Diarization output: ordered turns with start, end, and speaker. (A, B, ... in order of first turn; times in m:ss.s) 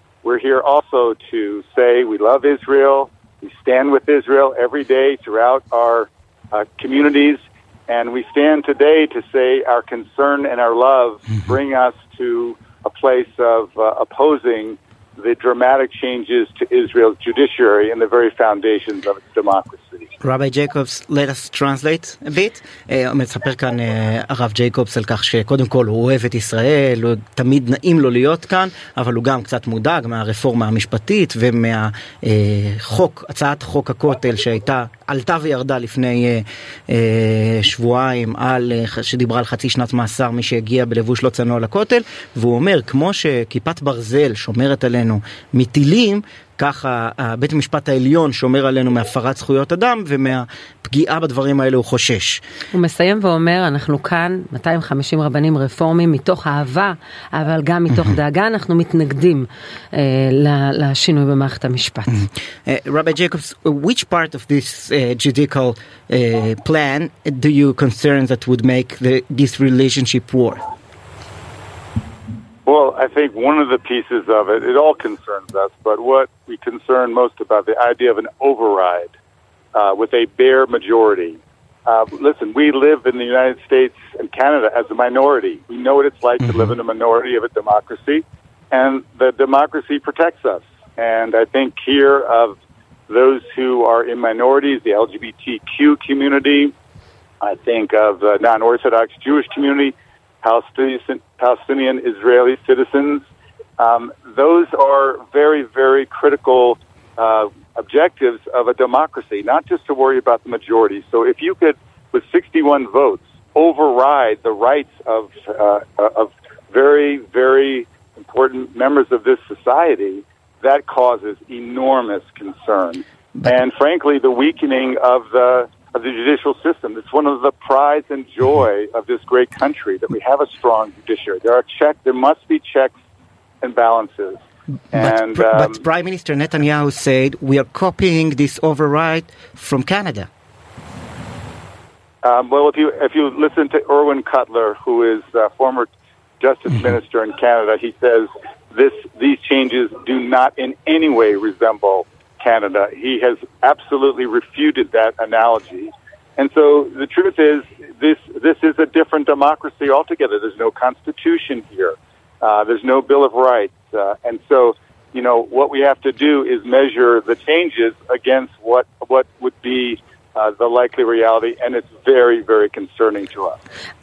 0:00.2-0:20.1 A
0:20.2-0:52.4 B
0:52.7-1:02.2 C
1:02.1-1:10.6 B
1:12.6-1:19.1 A
1:19.7-1:32.6 A
1:33.1-1:36.7 A
1:37.4-1:43.3 A
1:43.8-2:12.9 A
2:13.6-2:15.8 A
2:14.9-2:20.3 B
2:22.2-2:53.6 A